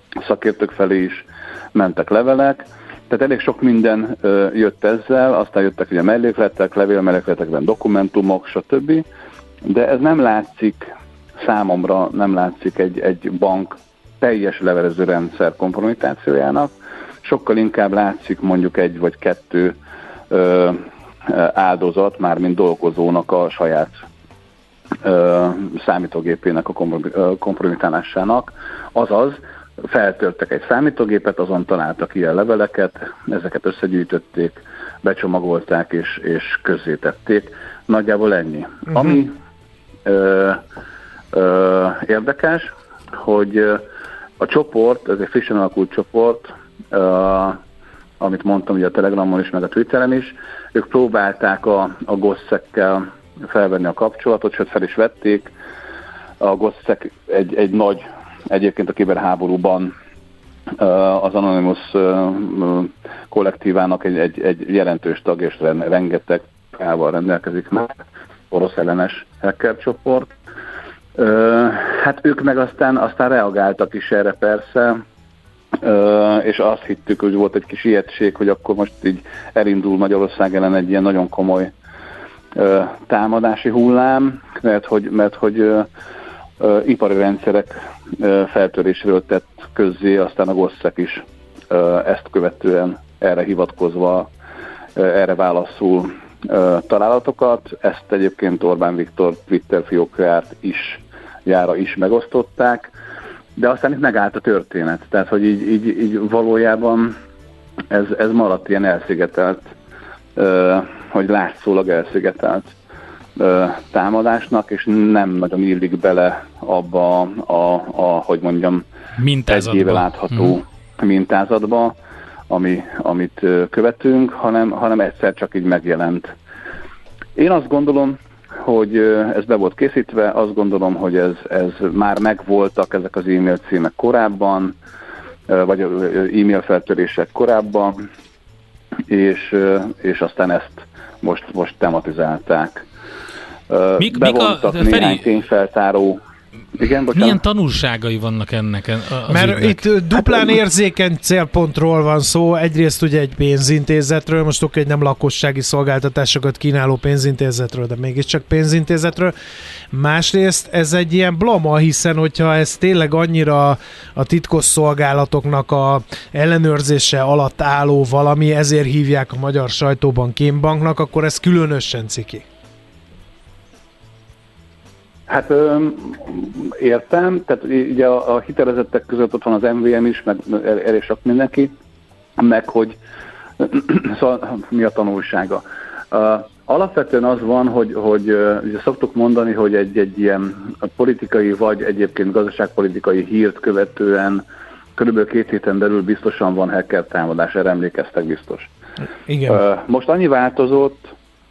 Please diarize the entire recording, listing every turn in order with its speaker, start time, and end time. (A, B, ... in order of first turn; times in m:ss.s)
0:00.2-0:09.0 A
0:09.6-0:10.9 A
0:11.4-0:16.7 A
0:17.2-0:19.8 A
0:20.3-0:24.0 A
0:25.0-0:39.4 A
0:40.0-0:40.6 A
0:41.3-0:43.8 A
0:44.4-0:47.6 A
0:48.2-0:55.5 A
0:56.4-0:59.9 A
1:00.8-1:10.3 A
1:11.2-1:15.0 A
1:15.8-1:21.7 A
1:22.5-1:25.9 A
1:26.6-1:34.3 A
1:35.0-1:42.9 A
1:43.6-1:47.2 A
1:47.9-1:49.7 A
1:50.4-1:52.7 A
1:53.4-1:58.8 A
1:59.2-2:00.6 B
1:59.5-2:02.0 A
2:02.5-2:06.3 A
2:07.4-2:14.8 A
2:15.5-2:18.0 A
2:19.1-2:22.8 A
2:23.7-2:26.2 A
2:24.0-2:25.3 B
2:26.8-2:27.4 A
2:27.1-2:29.9 B
2:29.3-2:39.3 C
2:39.9-2:52.4 C
2:55.3-3:01.7 A
3:02.4-3:03.0 A
3:03.6-3:14.4 A
3:15.0-3:18.7 A
3:19.3-3:19.6 C
3:19.4-3:21.1 A